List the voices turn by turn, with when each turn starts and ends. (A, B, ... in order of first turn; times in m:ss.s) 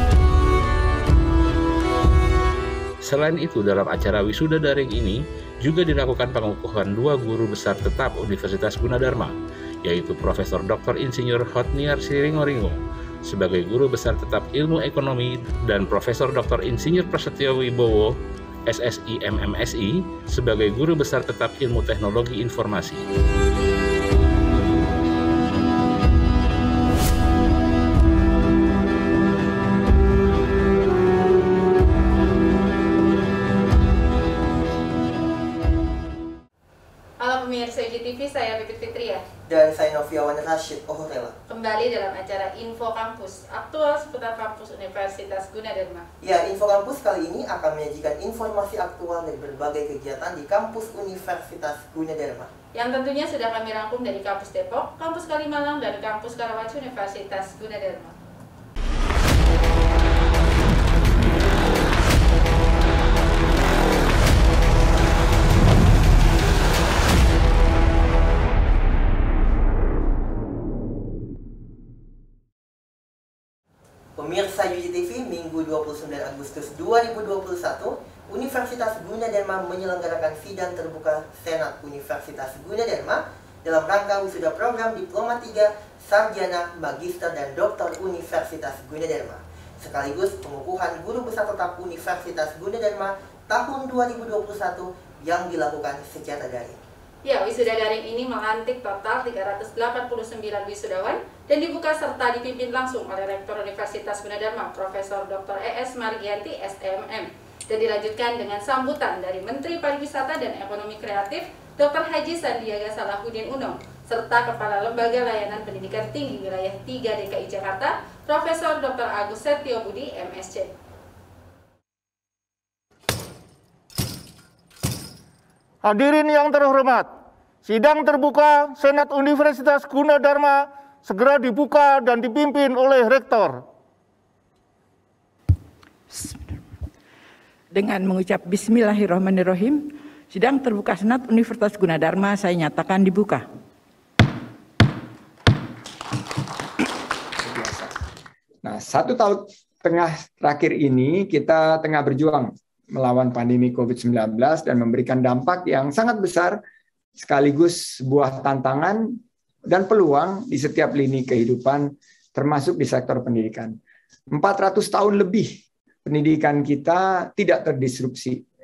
0:03.0-0:18.1 A
0:18.7-0:23.0 A
0:37.2-0:39.2 B
0:39.5-0:41.3 C
0:41.5-0:46.0 B
0:46.2-0:52.5 C
0:52.7-0:58.1 B
1:14.2-1:36.8 C
1:37.2-2:00.7 B
2:05.8-2:13.6 D
2:16.1-2:16.6 E
2:17.7-2:23.4 E
2:27.4-2:27.9 F
2:28.6-2:36.6 F
2:37.2-2:39.2 F
2:39.7-2:43.8 F
2:44.3-2:48.4 F